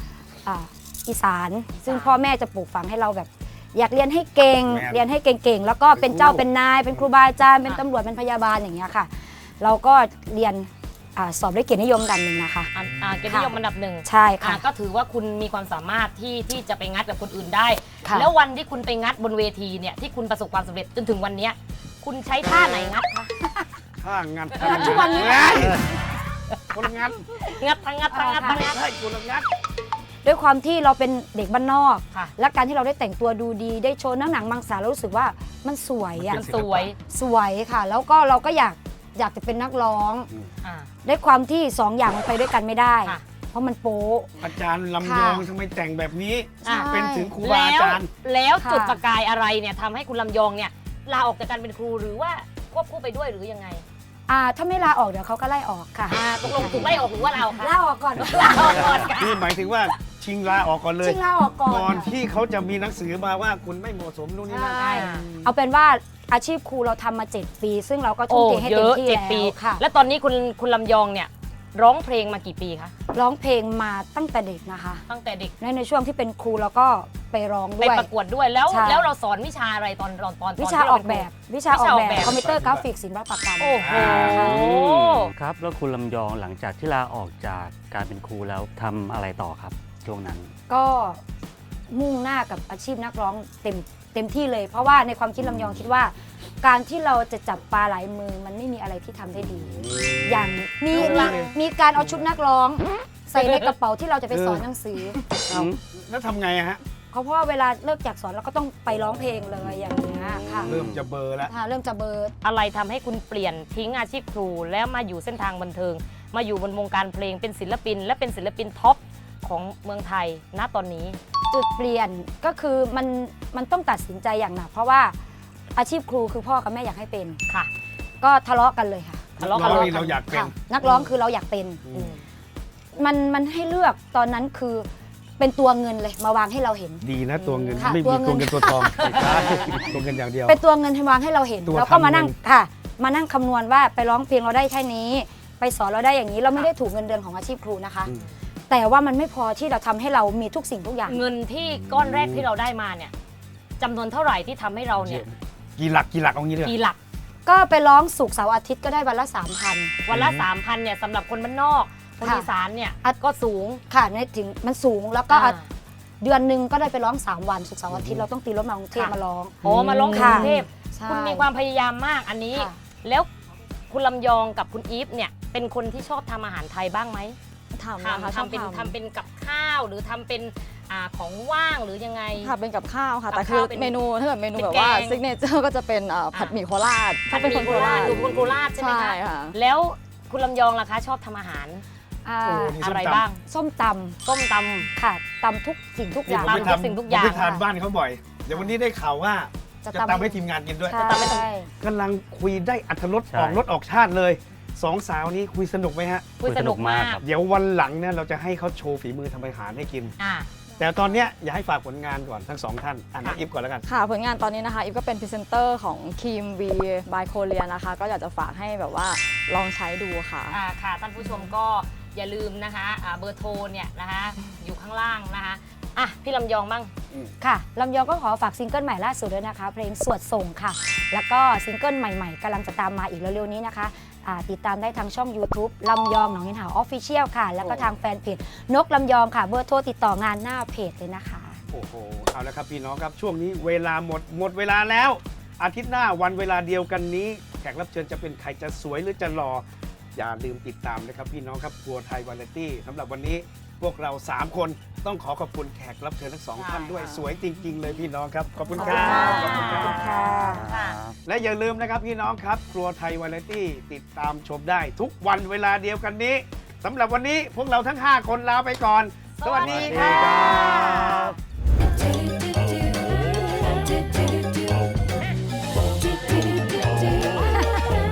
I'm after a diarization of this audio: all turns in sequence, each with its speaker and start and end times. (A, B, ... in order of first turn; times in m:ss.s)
0:00.4-0:12.7 A
0:01.7-0:02.2 B
0:04.6-0:05.0 C
0:05.9-0:07.1 C
0:12.7-0:23.3 B
0:13.3-0:14.6 A
0:18.0-0:18.3 A
0:24.0-0:25.9 C
0:24.5-0:25.4 B
0:24.6-0:25.8 A
0:26.7-0:27.4 C
0:27.4-0:28.8 B
0:28.1-0:28.6 A
0:28.6-0:29.5 C
0:30.2-0:36.4 A
0:36.2-0:36.9 C
0:36.3-0:37.0 B
0:37.0-0:40.3 A
0:40.6-0:40.9 B
0:41.0-0:44.3 A
0:44.4-0:48.1 C
0:45.0-0:45.4 A
0:46.6-0:47.0 A
0:46.7-0:53.8 B
0:46.7-0:47.4 D
0:48.6-0:49.0 A
0:54.3-0:59.1 A
0:56.1-0:59.4 B
0:56.5-0:56.9 C
0:59.0-1:05.1 C
1:01.0-1:02.1 A
1:04.5-1:09.8 A
1:04.8-1:05.3 B
1:08.3-1:12.9 B
1:13.1-1:15.0 A
1:15.1-1:15.5 B
1:15.6-1:18.1 A
1:17.8-1:22.4 B
1:18.7-1:19.1 A
1:20.6-1:24.6 A
1:22.2-1:22.9 C
1:23.6-1:25.3 B
1:23.8-1:24.8 C
1:24.1-1:24.7 E
1:25.3-1:30.5 E
1:30.7-1:31.2 A
1:31.9-1:45.2 A
1:39.7-1:41.5 C
1:40.9-1:41.4 B
1:43.4-1:43.7 B
1:44.3-1:44.6 C
1:45.5-1:45.8 E
1:45.5-1:46.8 C
1:47.1-1:50.7 A
1:50.4-1:51.0 E
1:50.6-1:51.5 C
1:51.4-1:52.3 A
1:52.4-2:01.2 B
2:01.5-2:05.2 A
2:05.8-2:07.4 A
2:08.2-2:11.9 A
2:09.4-2:09.9 B
2:09.4-2:10.6 C
2:10.8-2:11.1 B
2:11.9-2:12.1 C
2:11.9-2:12.2 B
2:12.9-2:14.9 A
2:15.4-2:17.0 A
2:17.0-2:20.6 C
2:17.4-2:18.0 B
2:17.8-2:19.4 A
2:19.0-2:19.8 B
2:20.5-2:28.1 A
2:21.7-2:22.4 C
2:28.7-2:31.2 A
2:31.0-2:33.1 B
2:31.8-2:32.5 C
2:33.8-2:35.2 B
2:35.0-2:36.8 C
2:36.6-2:37.0 B
2:37.5-2:39.9 A
2:40.0-2:43.8 B
2:40.1-2:40.5 C
2:42.2-2:42.5 A
2:43.9-2:45.6 A
2:45.3-2:45.7 B
2:46.2-2:51.4 A
2:47.9-2:48.3 C
2:48.9-2:53.3 B
2:49.6-2:50.5 C
2:53.9-2:57.4 B
2:57.7-2:59.0 D
2:58.0-3:02.5 B
3:02.4-3:09.6 D
3:03.3-3:04.0 B
3:04.5-3:05.2 B
3:07.3-3:11.8 B
3:12.2-3:12.8 A
3:12.4-3:13.2 C
3:12.8-3:13.4 B
3:13.4-3:14.2 A
3:14.2-3:14.9 B
3:15.0-3:17.6 A
3:16.3-3:21.0 C
3:16.4-3:17.5 B
3:19.8-3:21.7 A
3:20.9-3:21.4 B
3:21.8-3:26.3 C
3:23.3-3:23.6 E
3:26.4-3:27.2 B
3:26.4-3:27.2 E
3:27.2-3:30.2 C
3:30.2-3:30.5 B
3:30.8-3:33.9 C
3:33.9-3:40.6 D
3:40.5-3:46.9 B
3:47.4-4:01.6 A
3:57.6-3:57.9 C
4:01.7-4:20.1 C
4:16.6-4:17.0 B
4:16.9-4:17.4 D
4:18.8-4:19.1 D
4:18.8-4:21.0 B
4:18.8-4:20.7 A
4:19.4-4:21.2 E
4:21.2-4:31.0 C
4:29.4-4:31.3 B
4:29.6-4:31.3 E
4:37.4-4:37.9 A